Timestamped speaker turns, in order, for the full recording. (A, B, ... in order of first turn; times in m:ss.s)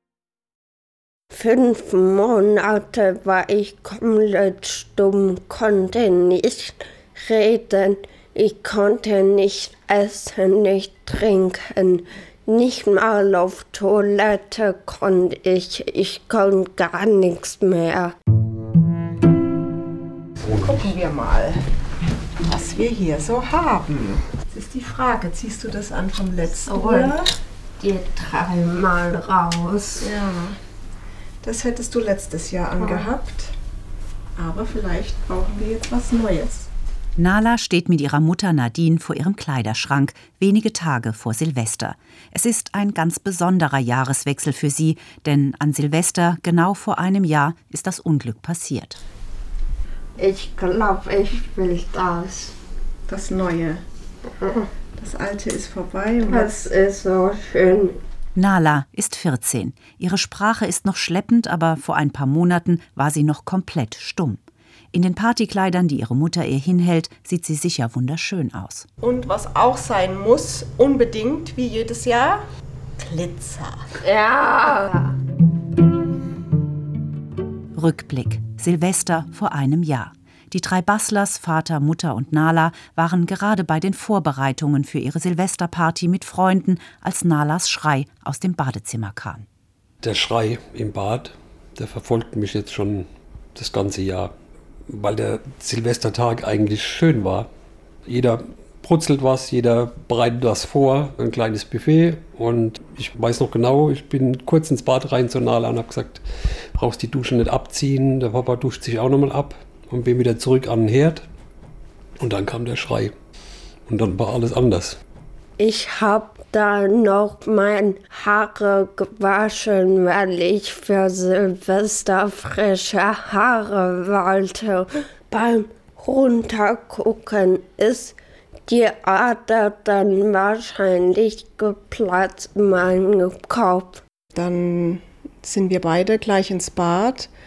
0:01.3-0:18.1 A
0:20.5-0:21.6 B
0:22.4-0:27.3 B
0:26.4-0:27.2 A
0:27.8-0:30.1 A
0:30.0-0:30.6 B
0:31.4-0:33.5 B
0:32.8-0:33.1 A
0:34.4-0:36.7 B
0:37.2-0:49.0 C
0:50.2-0:52.5 A
0:53.1-0:53.8 B
0:54.4-0:54.7 A
0:54.9-0:56.7 B
0:56.3-0:58.0 A
0:58.3-1:04.4 C
1:04.9-1:08.9 C
1:09.0-1:12.4 B
1:13.0-1:13.8 B
1:14.0-1:15.1 A
1:17.7-1:29.4 C
1:30.0-1:34.3 D
1:34.9-1:37.5 D
1:38.0-1:46.2 D
1:46.7-1:51.2 D
1:52.2-1:53.1 D
1:53.9-1:55.0 D
1:55.6-2:08.2 A
2:08.7-2:14.0 A
2:14.3-2:17.3 B